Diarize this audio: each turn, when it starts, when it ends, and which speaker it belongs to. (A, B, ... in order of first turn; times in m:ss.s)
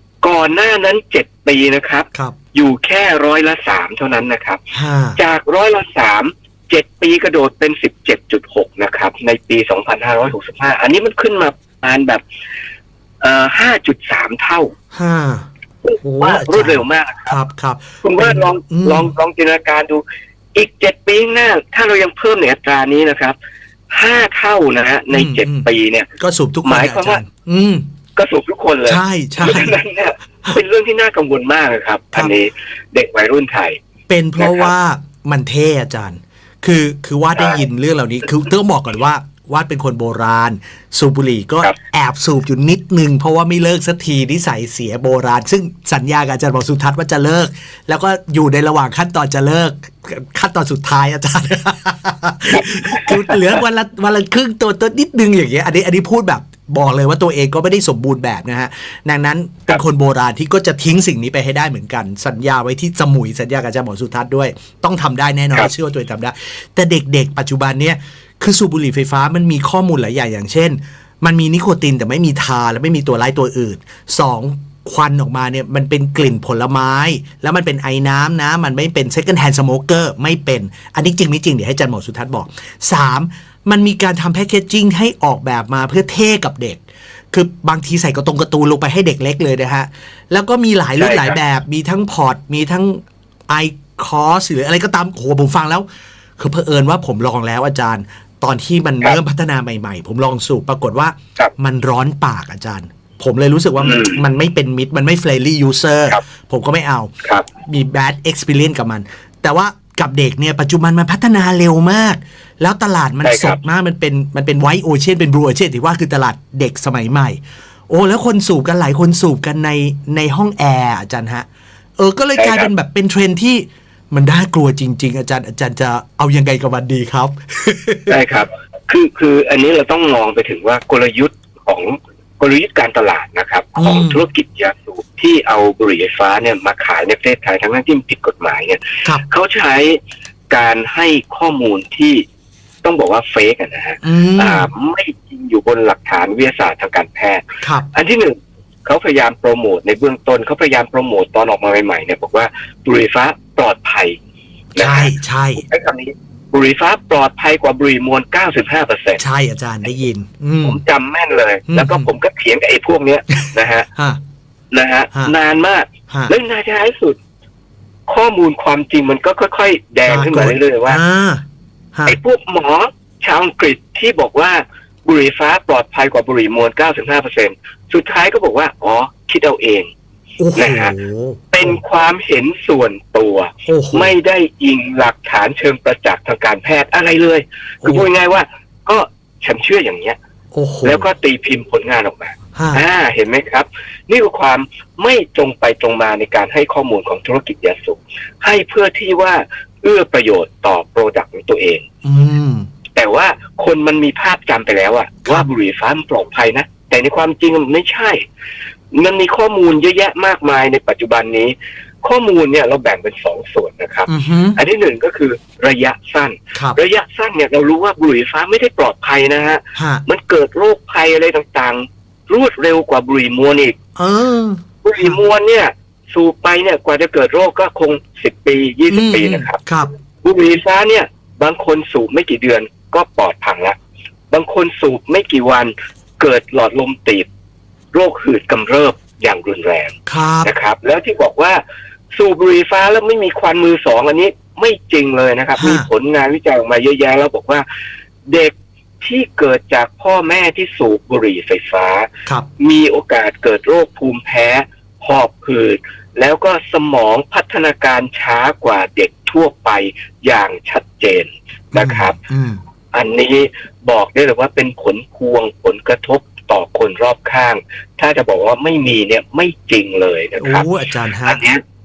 0:00.2-0:04.6 A
0:04.7-0:05.2 B
0:05.2-0:12.2 A
0:13.2-0:14.7 A
0:14.9-0:15.5 B
0:15.8-0:17.4 A
0:16.0-0:19.1 B
0:18.0-0:20.0 A
0:20.5-0:23.4 A
0:23.9-0:26.1 A
0:25.1-0:25.7 B
0:26.2-0:27.8 B
0:26.6-0:27.2 A
0:28.2-0:33.8 A
0:28.8-0:29.8 B
0:34.1-1:35.8 B
0:34.4-0:34.7 A
0:37.4-0:37.6 A
0:52.5-0:53.6 A
1:31.0-1:31.4 A
1:36.4-1:57.4 B
1:43.8-1:44.2 A
1:53.2-1:53.6 A
1:57.9-2:01.5 B
2:02.0-2:08.2 B
2:02.4-2:02.7 A
2:08.1-2:22.2 A
2:13.8-2:14.2 B
2:22.8-2:34.2 A
2:24.0-2:24.7 B
2:27.6-2:27.9 B
2:34.8-2:35.6 B
2:34.8-2:39.2 A
2:39.2-2:40.8 B
2:40.6-2:43.9 A
2:41.7-2:42.1 B
2:43.3-2:44.2 B
2:44.7-2:47.2 A
2:48.1-2:51.0 A
2:50.1-2:51.4 B
2:52.1-2:59.9 A
3:00.4-3:01.8 B
3:00.5-3:00.9 A
3:01.5-3:10.2 A
3:03.7-3:04.1 B
3:07.8-3:08.1 B
3:10.5-3:11.1 B
3:10.8-3:21.8 A
3:12.5-3:12.8 B
3:22.0-3:22.7 B
3:22.9-3:28.2 A
3:28.9-3:43.8 A
3:34.1-3:34.6 B
3:39.8-3:40.0 B
3:44.0-3:45.2 B
3:44.8-3:49.6 A
3:48.9-3:49.9 B
3:50.2-3:53.8 A
3:54.3-3:57.3 A
3:57.9-4:01.6 A
4:00.0-4:00.5 B
4:02.1-4:07.6 A
4:05.6-4:05.9 B
4:08.3-4:22.2 A
4:21.7-4:22.6 B
4:22.9-4:30.6 A
4:30.4-4:31.4 B
4:31.2-4:31.6 A